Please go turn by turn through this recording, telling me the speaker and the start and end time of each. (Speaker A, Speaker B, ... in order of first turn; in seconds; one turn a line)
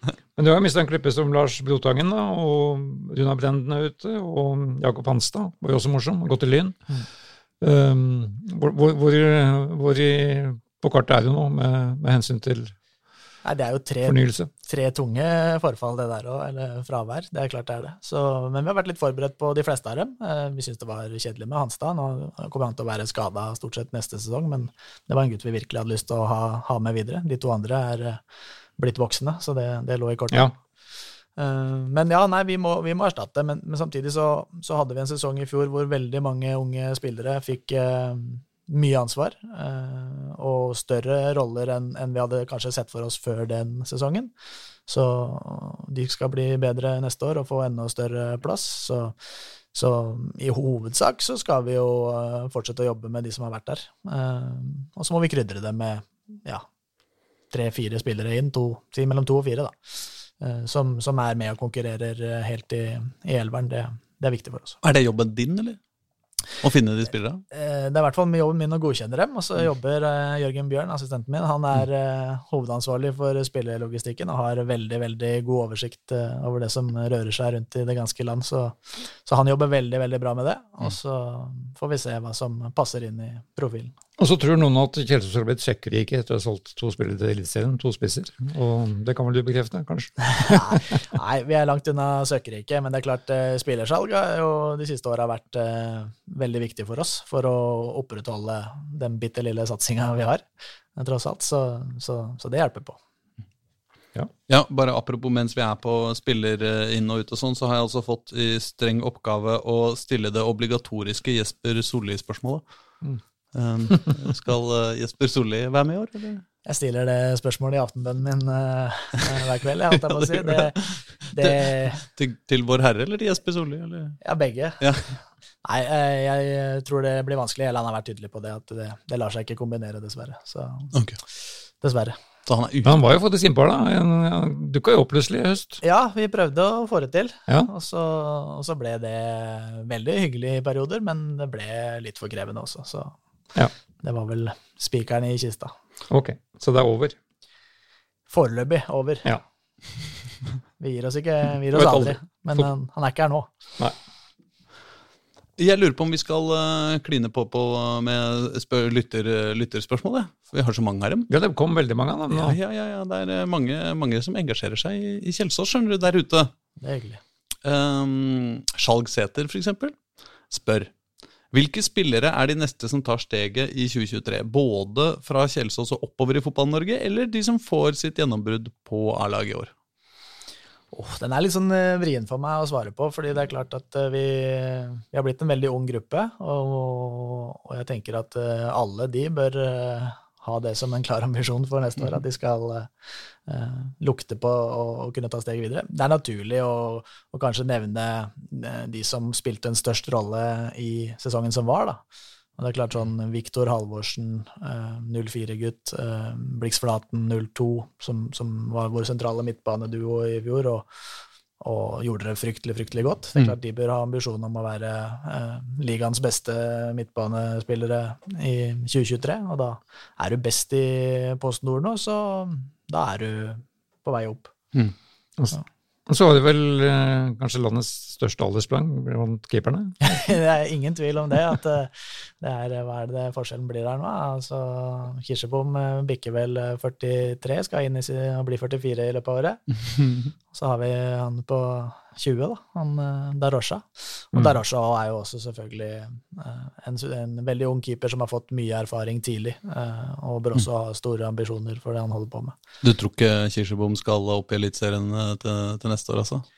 Speaker A: 0.4-7.0
Speaker A: 7.6-12.8
Speaker B: 13.4-28.2
Speaker A: 14.0-14.5
Speaker B: 28.8-30.6
Speaker B: 31.4-44.3
Speaker B: 44.9-49.1
Speaker B: 49.7-56.6
Speaker B: 57.5-64.8
Speaker C: 64.8-65.8
Speaker C: 66.6-67.4
Speaker B: 67.5-83.9
Speaker A: 84.2-91.0
Speaker B: 90.3-103.0
Speaker C: 104.5-112.6
Speaker C: 113.5-116.4
Speaker B: 116.6-122.0
Speaker C: 120.1-124.2
Speaker B: 124.2-124.9
Speaker C: 124.8-125.1
Speaker B: 125.6-130.9
Speaker C: 130.9-131.2
Speaker B: 131.8-132.2
Speaker C: 132.4-133.0
Speaker A: 132.8-135.8
Speaker B: 135.8-143.2
Speaker B: 144.0-145.7
Speaker A: 146.1-147.2
Speaker B: 148.3-149.4
Speaker B: 150.8-153.5
Speaker A: 151.7-152.7
Speaker C: 155.6-161.3
Speaker A: 161.3-162.6
Speaker C: 162.3-166.5
Speaker B: 166.8-167.2
Speaker C: 167.6-170.0
Speaker C: 170.5-170.9
Speaker C: 171.5-179.7
Speaker B: 180.9-192.9
Speaker B: 193.4-202.0
Speaker B: 202.6-211.0
Speaker B: 211.6-224.5
Speaker A: 225.4-230.3
Speaker B: 230.0-239.6
Speaker C: 240.0-240.2
Speaker B: 240.5-252.6
Speaker A: 244.3-244.6
Speaker C: 252.8-256.4